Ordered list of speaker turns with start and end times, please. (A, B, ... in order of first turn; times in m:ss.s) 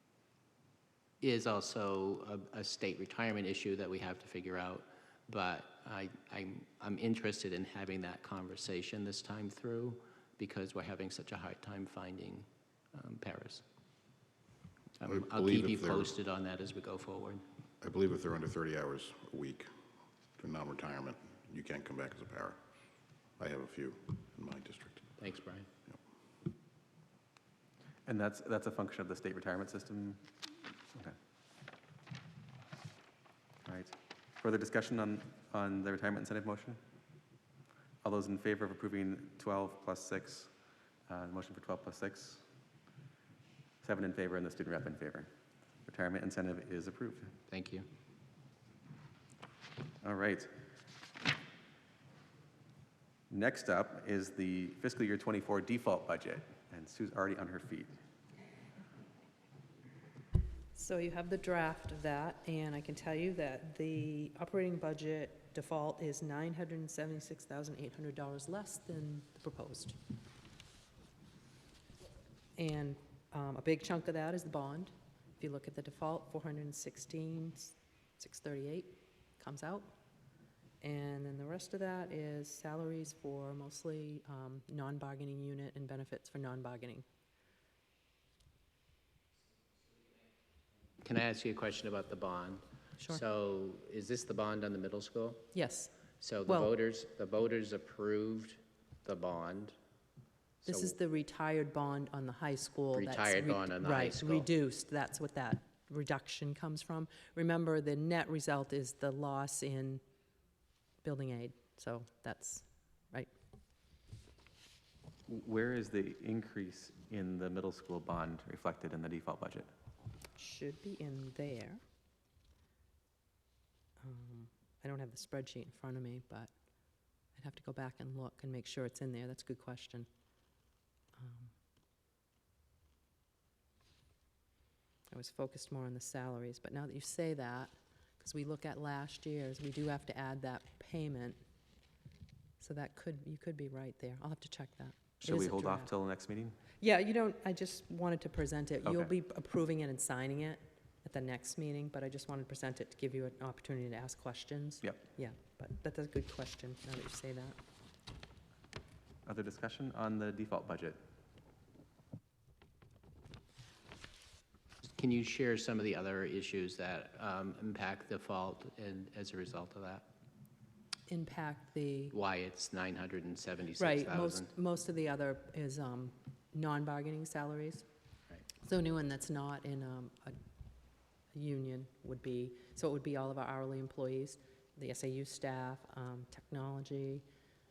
0:01.2-0:13.6 A
0:15.0-0:17.4 A
0:15.0-0:16.1 B
0:17.8-0:19.7 B
0:20.4-0:22.6 B
0:23.4-0:25.1 B
0:25.2-0:25.7 A
0:28.0-0:30.3 C
0:33.6-0:36.8 C
0:38.0-0:40.5 C
0:41.1-0:42.4 C
0:43.8-0:45.3 C
0:45.8-0:47.3 C
0:47.5-0:47.9 A
0:50.0-0:50.5 C
0:53.3-0:57.9 C
1:00.7-1:10.0 D
1:12.6-1:19.9 D
1:20.8-1:27.0 D
1:31.0-1:35.5 A
1:35.5-1:36.7 D
1:36.2-1:39.7 A
1:40.6-1:40.9 A
1:40.6-1:50.0 D
1:42.9-1:44.5 A
1:51.0-1:53.3 D
1:55.3-1:59.7 C
2:00.4-2:01.8 D
2:04.0-2:06.5 D
2:07.3-2:10.1 D
2:11.2-2:11.5 D
2:15.1-2:21.4 D
2:22.6-2:25.9 D
2:25.2-2:26.6 C
2:26.8-2:37.6 D
2:28.8-2:29.1 C
2:39.2-2:41.0 C
2:45.0-2:50.1 A
2:51.1-2:52.1 D
2:52.1-2:54.5 A
2:53.8-2:57.8 D
2:58.6-3:00.4 D
3:01.3-3:07.2 D